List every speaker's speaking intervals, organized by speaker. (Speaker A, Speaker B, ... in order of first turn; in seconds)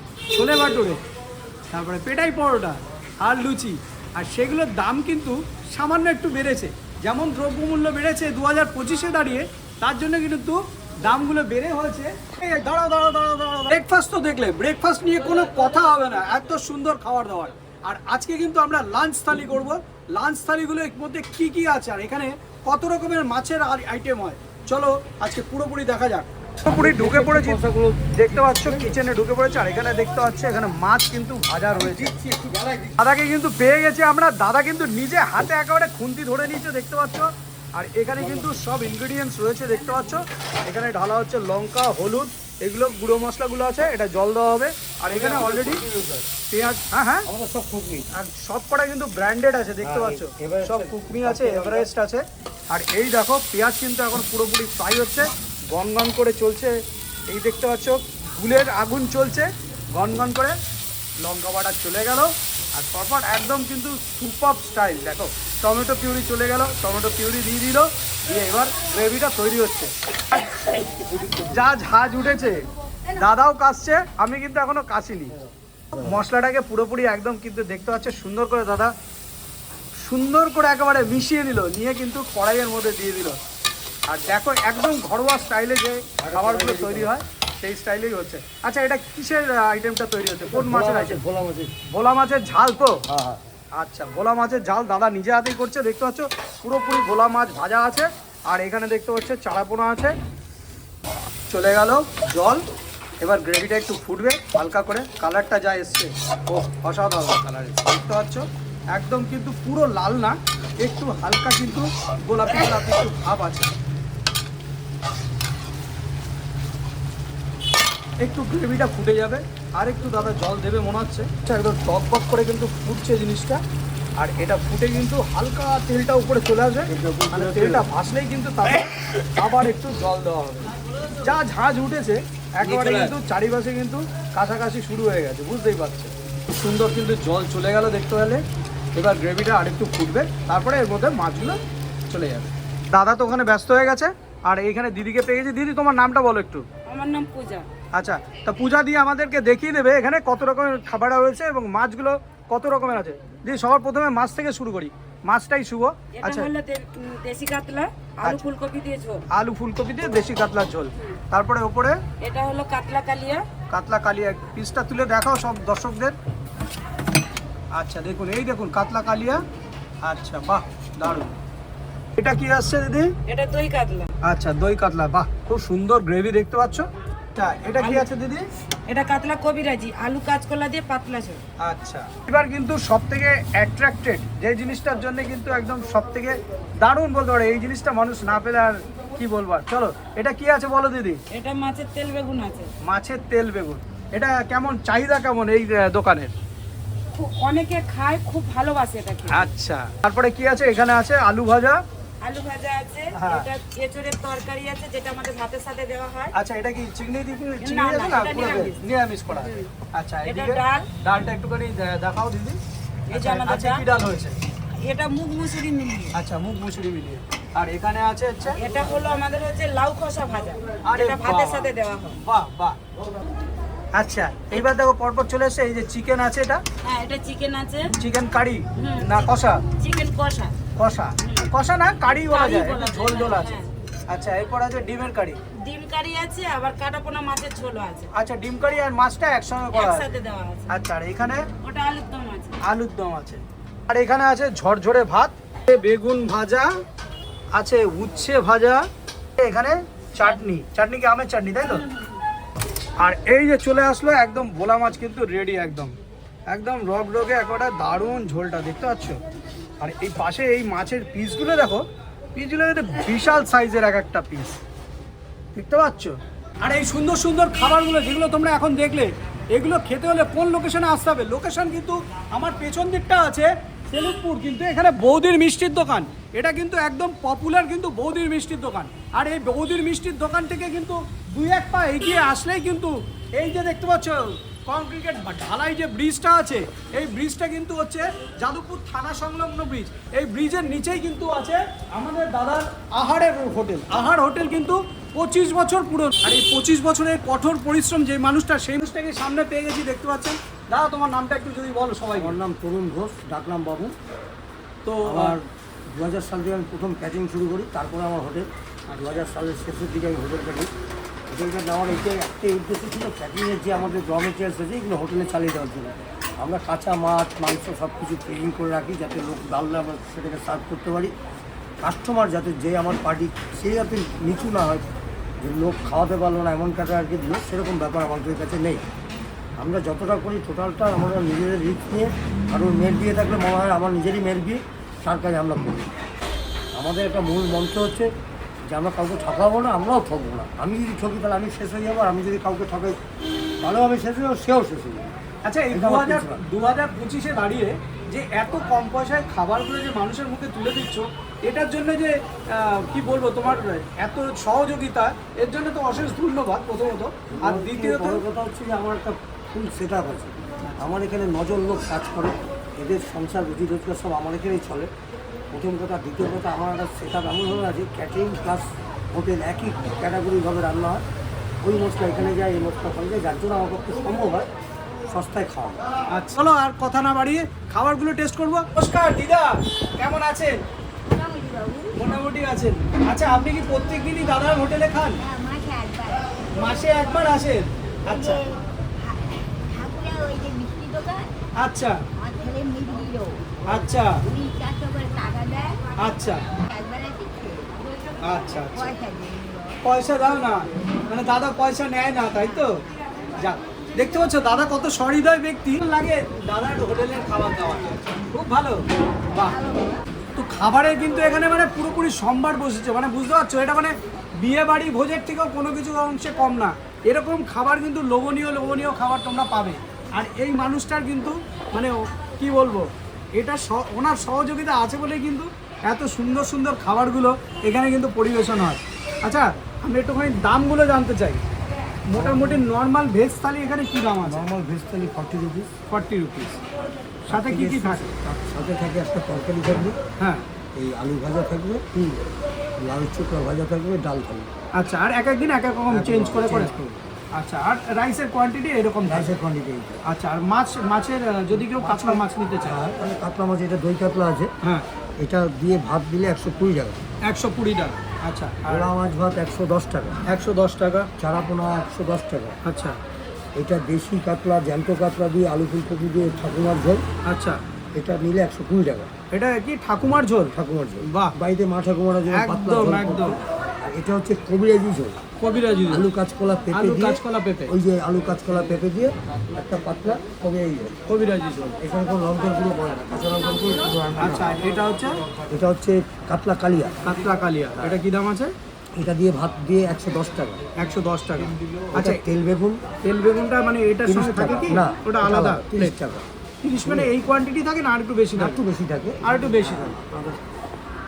Speaker A: 0.3-1.0, 1.7-32.1, 33.0-45.8, 46.5-47.3, 48.1-60.6, 61.2-69.9, 71.4-75.4, 76.0-78.9, 80.0-83.4, 84.1-91.2, 91.9-93.0, 93.7-100.2, 101.5-102.6, 103.2-113.7, 118.2-123.6, 124.2-130.7, 131.2-138.4, 138.9-146.7, 147.9-156.5, 159.3-162.0, 163.7-166.2, 167.7-169.4, 170.0-171.3, 172.2-173.2, 174.2-178.5, 181.6-191.2, 192.8-196.3, 199.3-201.8, 203.1-203.5, 206.3-212.6, 213.1-214.4, 216.1-218.6, 220.8-222.8, 223.9-226.6, 227.9-229.6, 230.8-233.5, 234.1-235.4, 238.1-240.1, 240.7-241.5, 242.6-246.7, 247.6-248.9, 249.4-251.8, 253.0-255.9, 256.5-259.2, 259.8-264.5, 265.6-302.4, 304.8-305.4, 345.4-358.2, 376.1-380.6, 381.9-385.2, 386.6-388.4, 391.6-392.0, 393.7-394.2, 396.0-396.4, 398.2-398.9, 399.8-402.8, 403.4-409.6, 410.4-431.4, 432.1-434.5, 435.9-436.6, 437.3-438.1, 440.2-440.4, 444.8-446.7, 447.4-449.3, 450.0-452.8, 457.2-458.9, 460.3-461.1, 462.6-463.0, 467.3-467.6, 469.3-470.5, 471.1-471.4, 472.3-473.4, 475.4-476.1, 476.7-477.7, 481.1-481.8, 484.2-485.2, 487.0-488.5, 490.8-492.2, 493.0-495.9, 496.6-498.6, 499.2-500.0
Speaker B: 26.7-29.0, 31.7-33.0, 45.0-46.3, 47.3-48.1, 49.8-51.9, 86.2-87.1, 90.5-91.8, 93.1-93.5, 126.9-127.9, 132.6-133.2, 302.1-303.9, 305.0-310.7, 311.3-321.1, 321.8-324.9, 325.4-328.9, 329.6-335.9, 336.7-338.1, 338.7-343.0, 343.6-345.1, 345.7-346.4, 357.3-364.9, 365.5-371.1, 371.6-374.5, 375.1-375.8, 432.1-432.7, 434.2-435.7, 437.2-440.0, 440.7-442.2, 442.8-444.5, 445.9-447.0, 449.1-450.0, 451.8-454.5, 455.2-457.0, 458.7-460.2, 461.2-462.6, 463.6-467.1, 467.9-469.1, 470.5-475.2, 475.9-481.0, 481.8-484.6, 485.5-487.0, 489.0-490.6, 491.9-492.8, 494.1-496.3, 496.9-497.1, 498.4-500.4
Speaker C: 146.9-147.7, 156.1-159.2, 162.2-163.4, 173.3-174.1, 177.8-178.1, 178.9-181.4, 191.3-192.7, 197.1-199.4, 202.2-206.3, 207.6-209.7, 210.3-210.9, 213.1-213.8, 214.8-216.2, 218.6-222.2, 226.8-227.9, 228.8-230.5, 231.2-231.5, 232.3-233.7, 235.6-238.1, 239.7-240.7, 241.6-242.6
Speaker D: 381.1-382.1, 385.2-386.3, 388.1-391.3, 392.2-393.4, 394.2-395.8, 396.7-398.2, 398.7-399.8, 409.4-410.0